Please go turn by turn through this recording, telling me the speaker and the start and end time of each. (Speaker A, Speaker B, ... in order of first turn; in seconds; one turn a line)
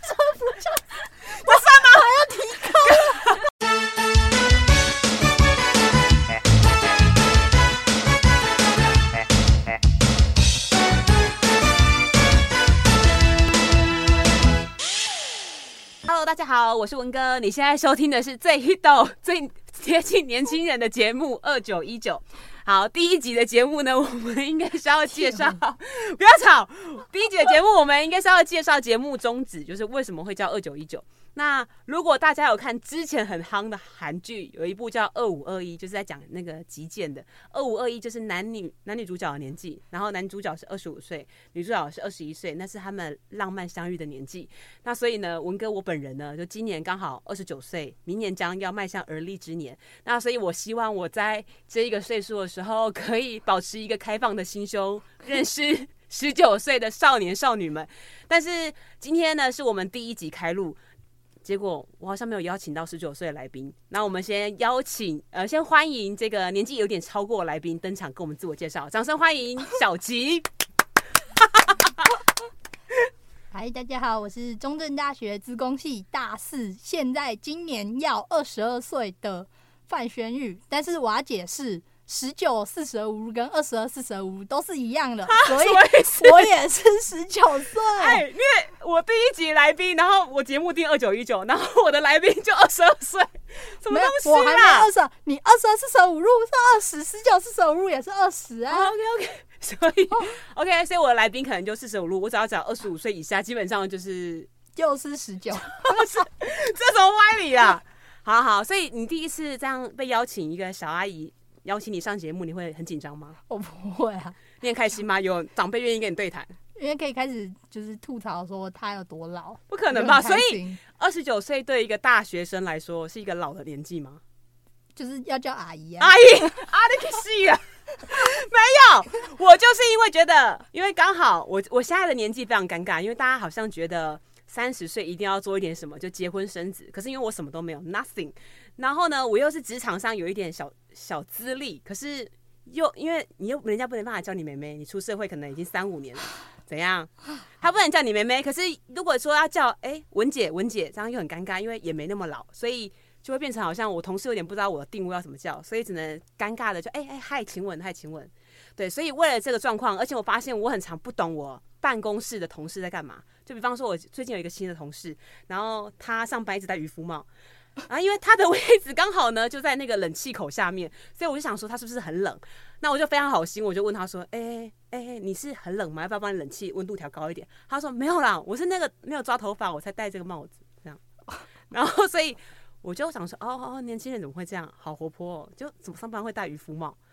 Speaker A: 1.4-2.3
Speaker B: 1.4-3.1
Speaker A: 2.9-3.2
Speaker A: 16.1-60.8
Speaker B: 25.1-25.6
Speaker A: 61.4-70.5
Speaker A: 71.4-71.9
Speaker B: 73.5-88.2
Speaker A: 85.3-86.5
Speaker A: 87.9-94.9
Speaker B: 93.9-98.9
Speaker A: 98.7-104.5
Speaker B: 104.7-106.1
Speaker A: 105.7-113.4
Speaker B: 113.5-114.4
Speaker A: 114.6-116.5
Speaker B: 116.8-120.8
Speaker A: 119.7-124.2
Speaker B: 125.0-126.5
Speaker A: 126.0-167.3
Speaker A: 167.9-181.0
Speaker A: 181.7-187.0